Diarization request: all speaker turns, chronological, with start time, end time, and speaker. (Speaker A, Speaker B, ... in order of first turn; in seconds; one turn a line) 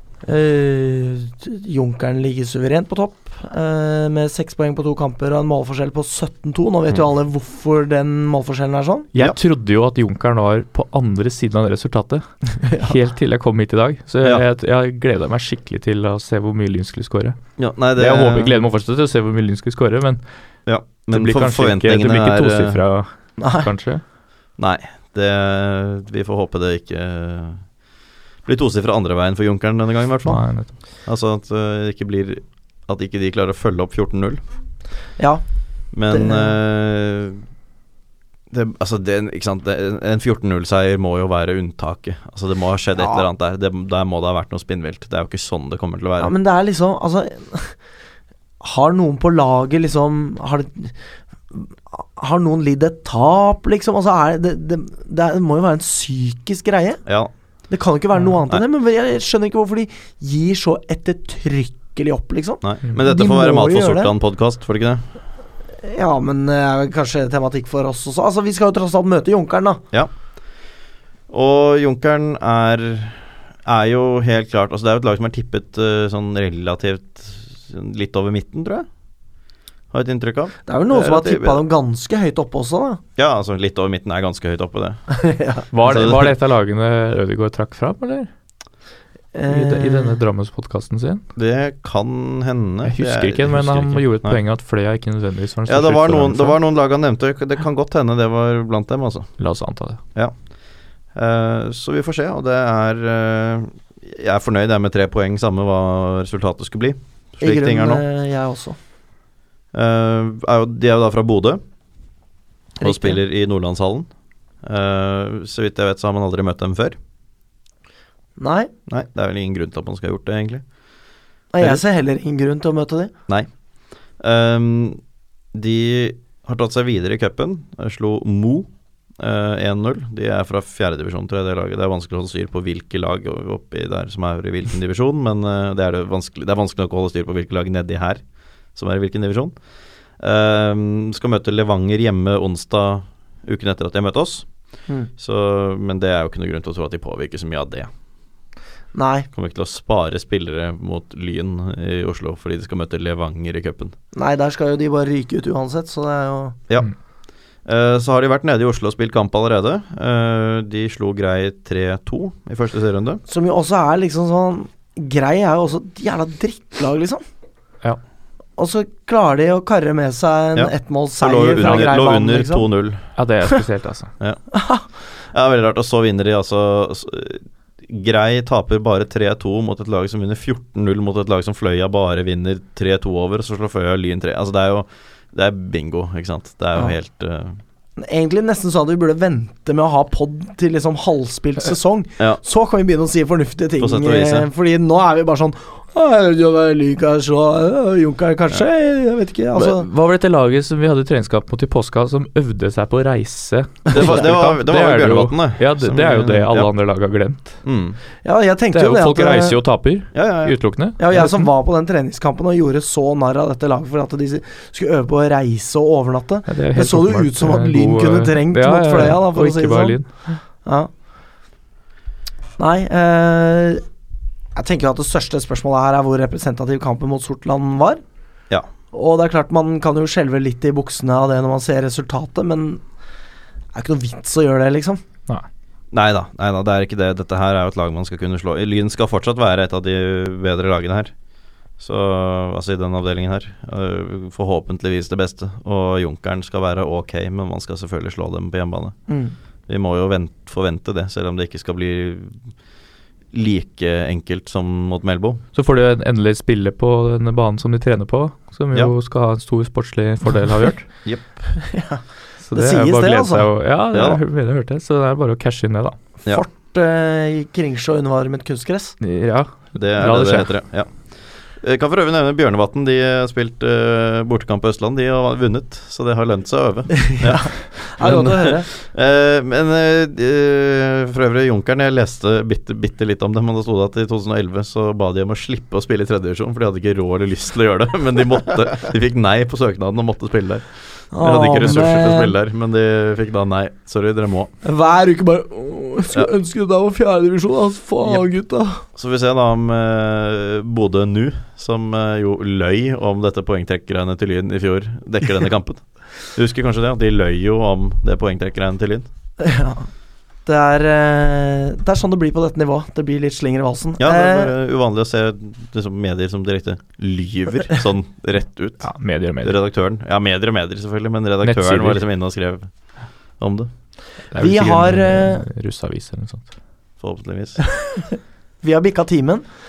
Speaker A: 0.2-9.1
Speaker B: 9.1-17.4
Speaker A: 12.6-12.9
Speaker C: 17.6-18.6
Speaker B: 17.9-20.2
Speaker C: 20.6-22.8
Speaker B: 21.1-24.0
Speaker A: 23.4-23.7
Speaker C: 24.6-27.6
Speaker C: 28.4-30.4
Speaker B: 30.2-30.7
Speaker C: 31.0-34.4
Speaker C: 35.9-37.4
Speaker A: 36.1-36.5
Speaker C: 38.5-46.3
Speaker A: 43.0-43.2
Speaker A: 46.2-47.8
Speaker A: 48.6-50.9
Speaker A: 51.5-57.0
Speaker C: 57.0-57.3
Speaker A: 57.7-64.1
Speaker C: 62.6-65.0
Speaker A: 65.8-69.8
Speaker C: 71.3-78.8
Speaker C: 79.9-81.6
Speaker A: 80.7-83.0
Speaker C: 83.2-85.2
Speaker A: 85.1-86.0
Speaker B: 85.7-88.3
Speaker C: 85.8-86.3
Speaker A: 89.3-90.2
Speaker B: 89.5-91.2
Speaker C: 91.3-94.4
Speaker B: 92.8-96.5
Speaker C: 95.7-99.3
Speaker B: 99.4-100.0
Speaker C: 101.1-108.0
Speaker A: 107.4-108.8
Speaker C: 109.7-111.6
Speaker A: 112.8-113.2
Speaker C: 112.8-114.1
Speaker C: 114.6-117.0
Speaker A: 118.4-118.7
Speaker C: 118.9-120.6
Speaker A: 121.5-123.1
Speaker C: 124.2-125.0
Speaker C: 125.5-138.2
Speaker C: 138.7-139.5
Speaker C: 140.2-144.5
Speaker C: 145.2-147.9
Speaker A: 148.9-149.3
Speaker C: 149.3-153.9
Speaker A: 154.1-156.6
Speaker C: 157.6-163.2
Speaker A: 163.3-167.2
Speaker A: 168.6-172.7
Speaker C: 170.6-173.0
Speaker B: 171.6-171.9
Speaker B: 173.2-174.1
Speaker A: 174.5-174.8
Speaker C: 175.3-187.6
Speaker A: 188.0-199.9
Speaker C: 193.8-194.5
Speaker B: 199.6-207.6
Speaker A: 203.9-204.2
Speaker C: 203.9-206.7
Speaker C: 207.6-208.0
Speaker A: 208.2-209.6
Speaker B: 208.7-211.5
Speaker C: 210.1-210.6
Speaker A: 211.0-220.9
Speaker B: 216.5-220.4
Speaker A: 222.6-223.8
Speaker A: 224.5-228.0
Speaker A: 228.9-232.8
Speaker A: 233.7-235.0
Speaker C: 235.9-241.1
Speaker C: 241.8-248.9
Speaker A: 249.1-249.3
Speaker C: 249.7-252.4
Speaker C: 253.3-255.4
Speaker B: 255.5-260.9
Speaker A: 261.6-263.4
Speaker B: 262.4-265.9
Speaker C: 263.9-264.2
Speaker A: 266.2-268.9
Speaker B: 269.0-270.5
Speaker C: 269.7-270.9
Speaker C: 271.6-294.5
Speaker A: 277.0-278.7
Speaker A: 291.1-292.3
Speaker A: 294.6-298.8
Speaker C: 298.9-309.1
Speaker A: 309.4-309.9
Speaker A: 310.4-314.5
Speaker C: 314.0-318.9
Speaker B: 318.8-319.6
Speaker C: 319.4-322.7
Speaker B: 321.4-322.0
Speaker C: 323.4-323.7
Speaker B: 324.3-326.5
Speaker A: 324.3-325.4
Speaker C: 327.0-327.6
Speaker A: 327.6-329.4